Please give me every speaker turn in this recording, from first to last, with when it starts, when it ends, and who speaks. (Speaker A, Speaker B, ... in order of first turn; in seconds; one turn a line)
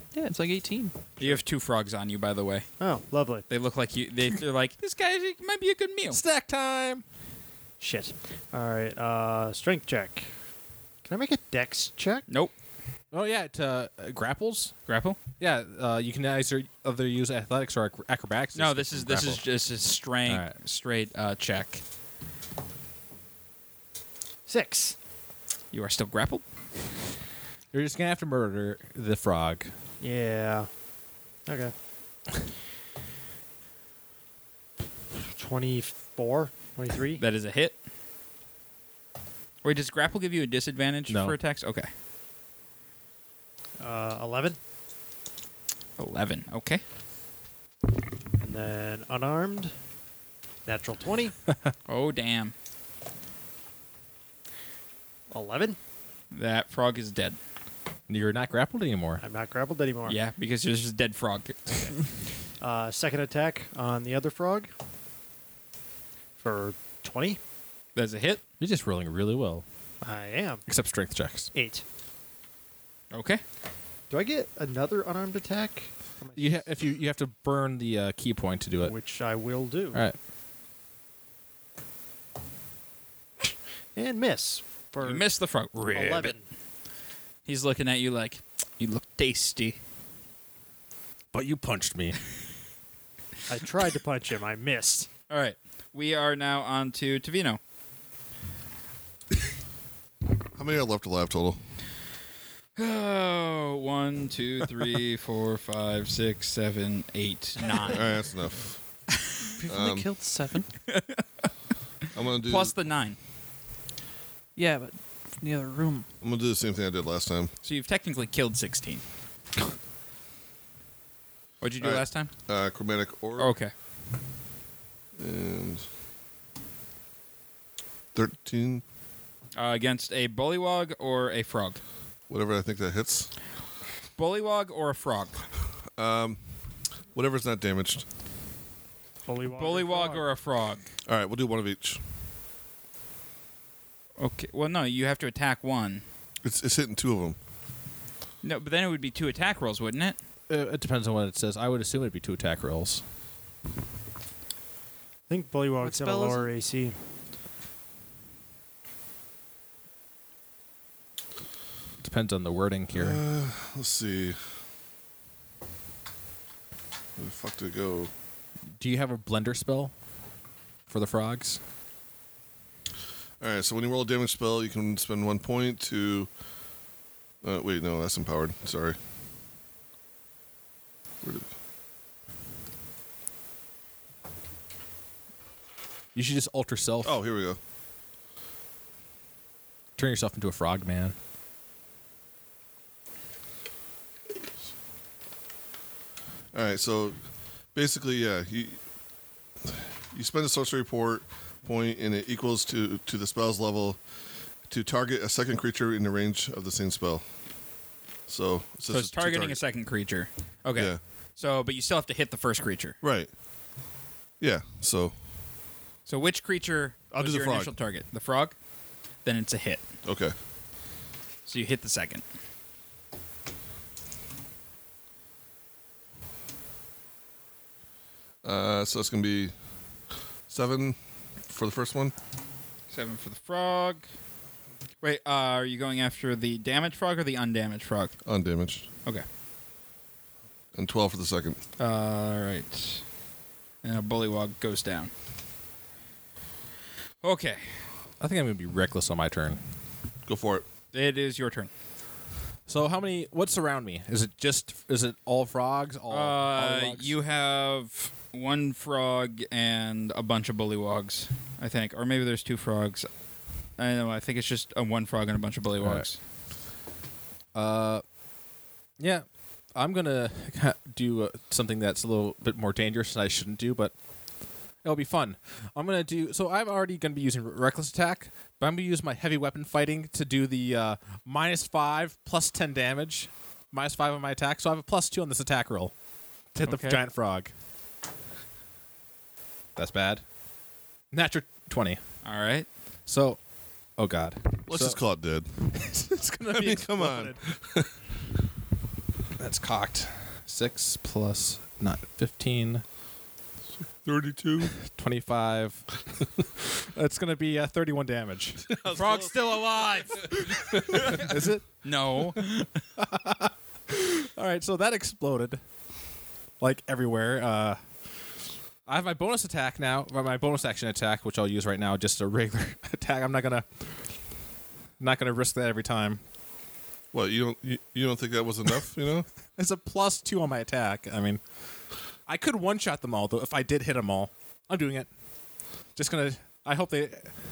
Speaker A: 0.1-0.9
Speaker B: 1.2-2.7
Speaker C: 2.8-3.5
Speaker B: 3.5-6.2
Speaker D: 6.1-7.0
Speaker C: 7.8-10.3
Speaker C: 11.1-12.3
Speaker D: 13.1-14.7
Speaker B: 14.9-15.2
Speaker D: 15.4-19.4
Speaker B: 18.6-21.8
Speaker D: 20.3-20.5
Speaker C: 24.5-25.0
Speaker B: 25.7-26.4
Speaker D: 27.7-29.7
Speaker C: 30.0-30.8
Speaker C: 31.5-31.7
Speaker C: 35.4-37.2
Speaker B: 37.2-37.8
Speaker B: 39.6-41.9
Speaker D: 41.1-41.4
Speaker C: 43.8-44.6
Speaker B: 46.0-46.8
Speaker C: 48.4-49.7
Speaker C: 50.6-51.4
Speaker B: 51.9-52.5
Speaker C: 55.3-55.8
Speaker B: 56.3-57.4
Speaker D: 58.1-59.2
Speaker C: 59.2-60.2
Speaker B: 60.1-62.0
Speaker C: 62.6-64.7
Speaker C: 66.4-67.4
Speaker B: 68.0-68.4
Speaker D: 68.6-69.6
Speaker C: 70.0-70.7
Speaker D: 70.7-71.5
Speaker C: 71.5-71.8
Speaker B: 73.1-73.4
Speaker C: 74.1-76.6
Speaker D: 76.3-79.0
Speaker C: 78.8-80.0
Speaker C: 84.0-86.5
Speaker B: 85.0-86.4
Speaker B: 87.5-89.8
Speaker D: 91.3-92.2
Speaker C: 93.5-95.1
Speaker B: 95.3-97.6
Speaker E: 100.5-101.6
Speaker B: 102.8-108.1
Speaker E: 107.8-108.8
Speaker A: 109.5-110.7
Speaker E: 109.7-110.1
Speaker B: 110.9-111.5
Speaker E: 112.1-112.8
Speaker B: 112.4-113.2
Speaker A: 114.5-116.1
Speaker E: 116.2-117.5
Speaker B: 117.6-119.0
Speaker B: 121.6-122.3
Speaker E: 121.8-123.6
Speaker B: 123.4-123.7
Speaker E: 125.2-125.9
Speaker E: 128.1-128.8
Speaker B: 129.6-131.8
Speaker E: 132.3-133.3
Speaker B: 134.2-135.4
Speaker E: 136.0-136.4
Speaker E: 137.1-138.1
Speaker C: 139.3-140.3
Speaker B: 139.6-140.9
Speaker E: 141.1-142.0
Speaker B: 144.2-146.0
Speaker E: 146.4-147.4
Speaker B: 148.4-150.2
Speaker D: 150.5-153.0
Speaker C: 155.3-157.0
Speaker A: 155.8-156.5
Speaker D: 162.0-163.2
Speaker E: 162.9-164.4
Speaker E: 167.2-168.1
Speaker D: 168.8-169.9
Speaker D: 170.9-171.6
Speaker E: 173.4-176.3
Speaker E: 177.4-179.0
Speaker E: 181.2-181.5
Speaker D: 186.1-187.1
Speaker E: 187.0-187.6
Speaker D: 190.0-191.2
Speaker E: 196.5-198.8
Speaker E: 199.7-204.1
Speaker E: 204.6-207.3
Speaker E: 208.3-209.6
Speaker B: 208.9-213.0
Speaker E: 210.8-211.0
Speaker E: 213.0-213.4
Speaker E: 214.4-215.2
Speaker B: 216.1-218.6
Speaker E: 217.2-217.7
Speaker B: 219.2-219.9
Speaker E: 220.0-220.3
Speaker B: 221.5-222.2
Speaker E: 228.4-229.5
Speaker E: 230.5-232.1
Speaker B: 232.9-234.1
Speaker B: 235.0-238.2
Speaker E: 238.2-238.9
Speaker E: 240.7-241.6
Speaker B: 241.8-243.1
Speaker B: 243.8-245.1
Speaker B: 247.2-247.7
Speaker D: 248.2-249.6
Speaker E: 250.3-250.7
Speaker B: 250.9-251.7
Speaker D: 252.7-257.2
Speaker B: 256.1-263.1
Speaker B: 263.7-266.2
Speaker D: 265.8-266.1
Speaker D: 267.5-268.1
Speaker D: 269.0-274.1
Speaker D: 274.8-285.9
Speaker D: 286.5-287.5
Speaker B: 286.6-287.0
Speaker D: 289.8-290.2
Speaker D: 291.1-292.0
Speaker B: 292.2-292.7
Speaker D: 293.1-293.4
Speaker D: 293.9-295.0
Speaker E: 294.6-295.8
Speaker D: 295.7-297.4
Speaker E: 296.5-297.9
Speaker D: 299.4-302.8
Speaker E: 304.0-304.8
Speaker D: 304.8-305.9
Speaker D: 306.8-315.6
Speaker E: 308.7-311.2
Speaker B: 310.9-312.5
Speaker D: 316.6-317.8
Speaker D: 318.9-323.9
Speaker D: 325.0-326.2
Speaker E: 327.1-329.3
Speaker D: 329.6-331.4
Speaker D: 332.3-335.1
Speaker D: 336.0-337.3